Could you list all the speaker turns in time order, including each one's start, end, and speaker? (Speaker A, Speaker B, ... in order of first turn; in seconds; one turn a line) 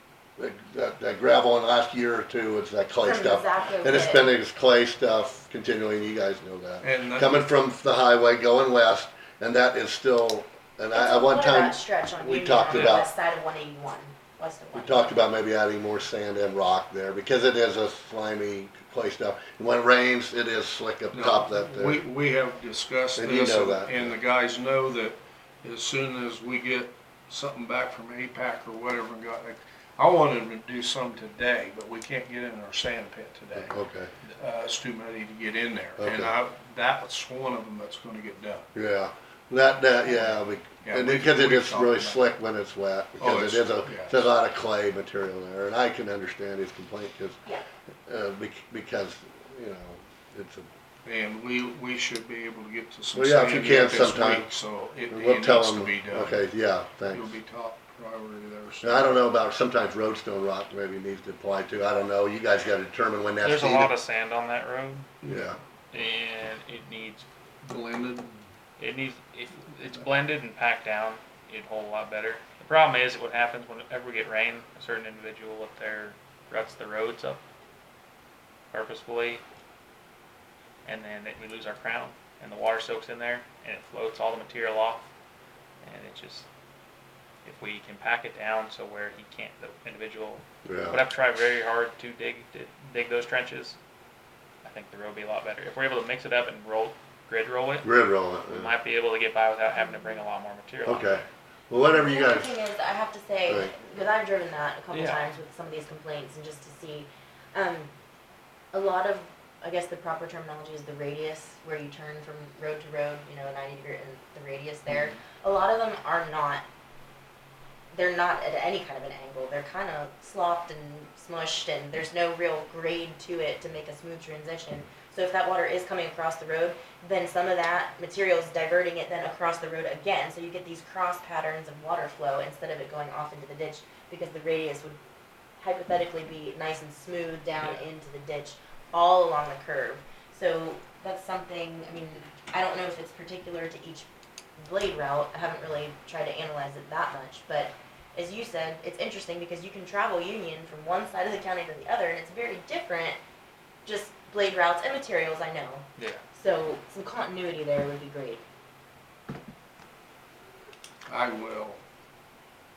Speaker A: 0.4-13.1
Speaker B: 3.0-4.3
Speaker C: 6.8-7.4
Speaker B: 10.9-15.2
Speaker D: 12.7-13.0
Speaker A: 14.7-22.0
Speaker C: 21.1-38.7
Speaker A: 23.2-24.1
Speaker A: 33.6-34.1
Speaker A: 36.0-36.3
Speaker A: 38.7-47.4
Speaker C: 40.1-42.2
Speaker C: 43.2-44.2
Speaker A: 48.1-50.7
Speaker C: 51.0-56.4
Speaker A: 53.1-54.5
Speaker A: 55.1-57.3
Speaker C: 57.1-59.2
Speaker A: 58.8-63.9
Speaker D: 63.4-65.1
Speaker A: 65.2-65.6
Speaker D: 65.9-67.2
Speaker C: 67.6-68.4
Speaker D: 68.8-77.4
Speaker D: 78.7-79.4
Speaker D: 80.8-85.1
Speaker D: 85.8-86.5
Speaker D: 87.4-93.8
Speaker A: 90.6-91.0
Speaker D: 94.6-97.9
Speaker A: 97.8-98.7
Speaker D: 98.5-101.2
Speaker B: 99.7-100.2
Speaker A: 100.8-102.5
Speaker B: 101.8-107.9
Speaker D: 104.9-105.2
Speaker B: 108.7-116.6
Speaker B: 117.9-135.0
Speaker B: 135.6-144.1
Speaker B: 144.6-153.2
Speaker B: 153.8-158.4
Speaker D: 156.0-156.2
Speaker C: 161.1-161.8